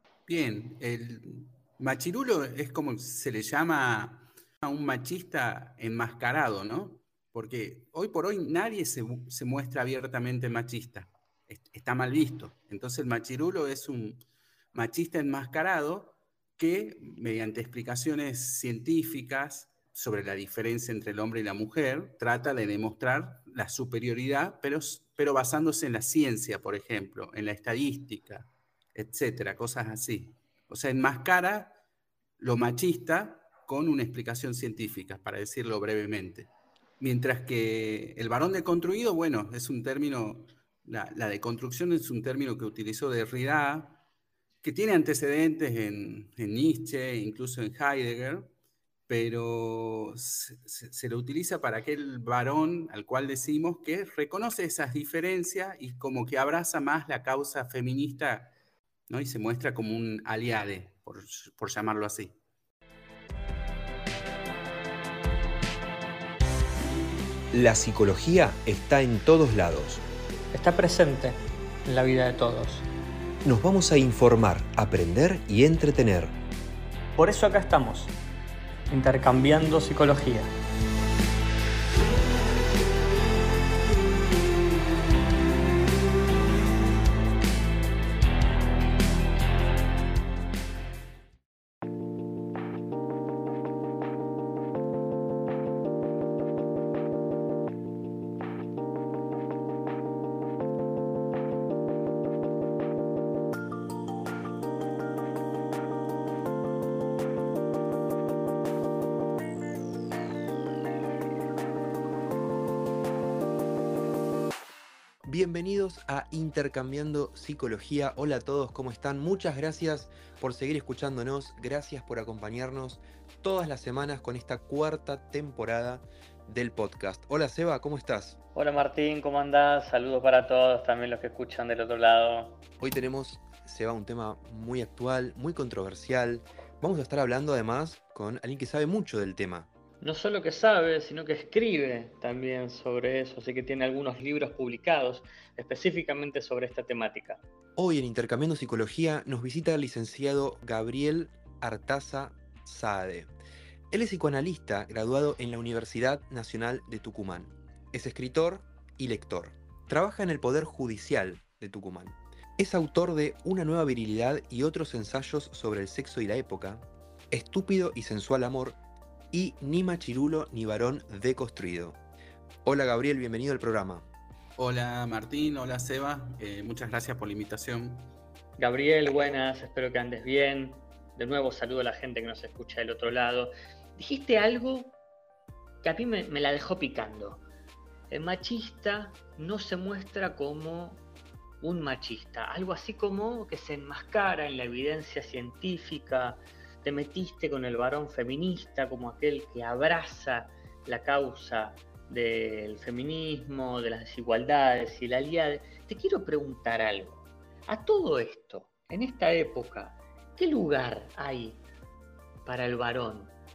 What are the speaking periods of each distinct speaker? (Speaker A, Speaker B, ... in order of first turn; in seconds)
Speaker A: 0.3-14.2, 14.7-31.8, 32.4-44.0, 44.6-48.5, 49.1-58.5, 59.1-62.3, 174.6-178.1
Speaker B: 67.5-70.0, 73.4-76.3, 115.2-128.4, 132.8-139.7, 147.8-153.3, 153.9-168.8, 169.3-172.0, 172.7-174.1
Speaker C: 70.5-72.8, 77.2-78.1, 78.9-80.5, 128.5-132.6, 140.0-147.4, 178.6-184.9, 185.8-187.4, 188.1-191.0, 191.6-211.6, 212.4-213.3